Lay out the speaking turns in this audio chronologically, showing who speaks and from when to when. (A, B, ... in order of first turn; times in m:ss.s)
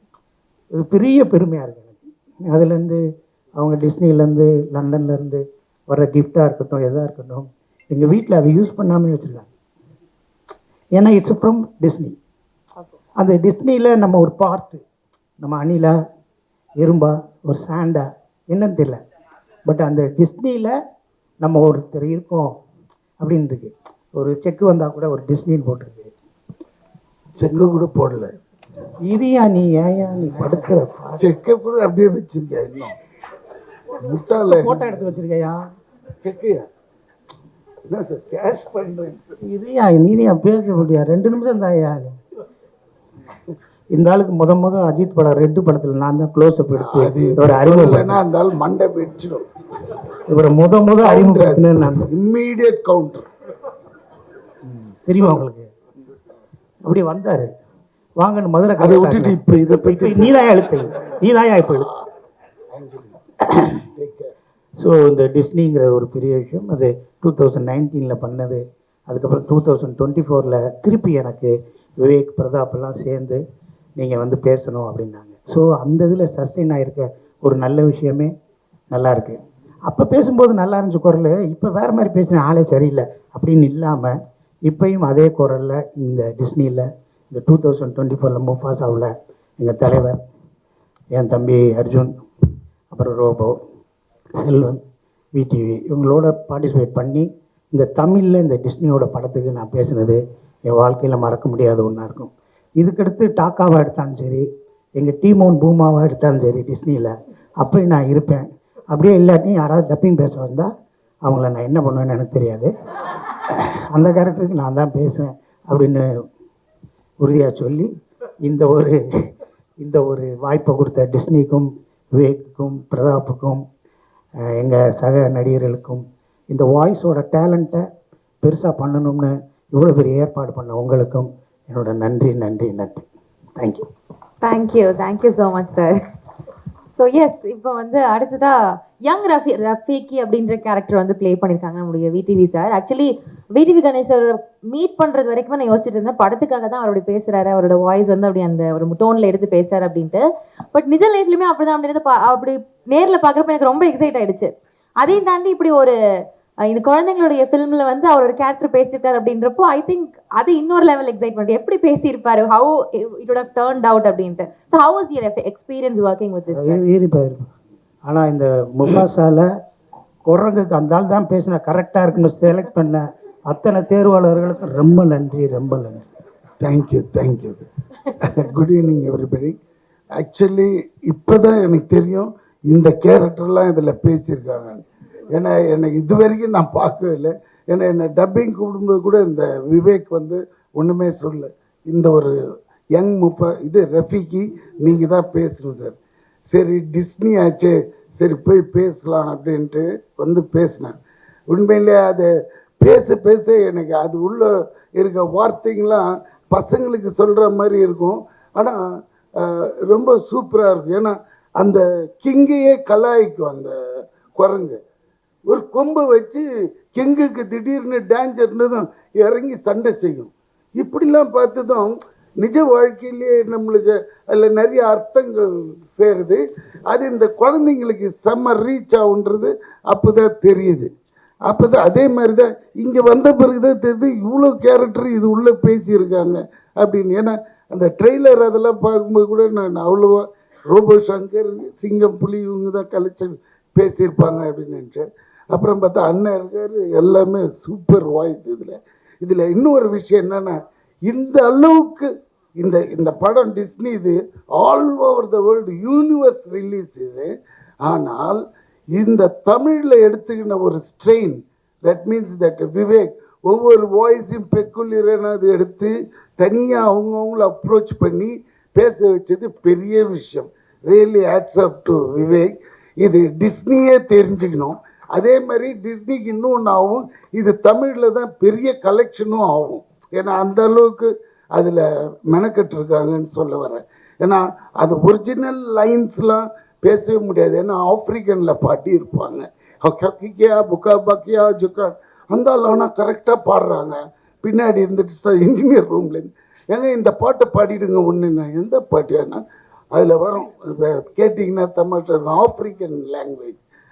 0:00.7-0:03.0 A
0:03.6-0:09.5 A
0:11.0-0:12.2 A
0:13.2-0:14.8 A
0:15.4-0:16.0 A
0:16.8-0:19.0 A
0:19.7-0:20.8 A
0:21.4-0:22.6 A
0:23.2-0:26.1 A
0:27.4-0:28.3 B
0:29.0-0:31.3 A
0:31.2-0:33.0 B
0:34.0-0:35.1 B
0:34.5-0:35.6 A
0:36.2-0:36.7 B
0:37.9-0:39.4 B
0:39.4-0:42.2 A
0:43.9-0:48.2 A
0:46.8-0:49.4 B
0:50.3-0:52.1 A
0:51.0-0:53.3 B
0:55.0-0:55.7 A
0:55.1-0:55.4 B
0:56.8-0:57.5 A
0:58.2-0:59.4 A
0:58.8-1:00.4 B
0:59.9-1:01.9 A
1:02.7-1:03.2 B
1:03.8-1:04.3 B
1:04.8-1:13.4 A
1:14.0-1:18.3 A
1:18.9-1:30.2 A
1:31.1-1:32.2 A
1:32.9-1:33.6 A
1:34.4-1:34.8 A
1:35.3-1:50.7 A
1:51.2-1:52.7 A
1:53.5-1:56.1 A
1:57.2-1:57.9 A
1:58.4-1:59.0 A
1:59.8-2:03.6 A
2:04.5-2:07.9 A
2:08.4-2:13.0 A
2:13.6-2:13.9 A
2:14.4-2:16.0 C
2:17.0-2:35.9 C
2:36.7-2:46.8 C
2:46.6-2:47.5 A
2:48.0-2:49.5 A
2:50.3-2:56.1 A
2:56.6-2:57.6 B
2:58.2-2:59.6 B
3:00.2-3:12.4 B
3:13.0-3:16.0 B
3:16.5-3:21.0 B
3:21.5-3:22.3 B
3:22.8-3:28.8 B
3:29.4-3:33.8 B
3:34.4-3:34.8 B
3:35.5-3:50.9 B
3:51.5-4:17.3 B
4:17.8-4:18.4 B
4:18.9-5:03.6 B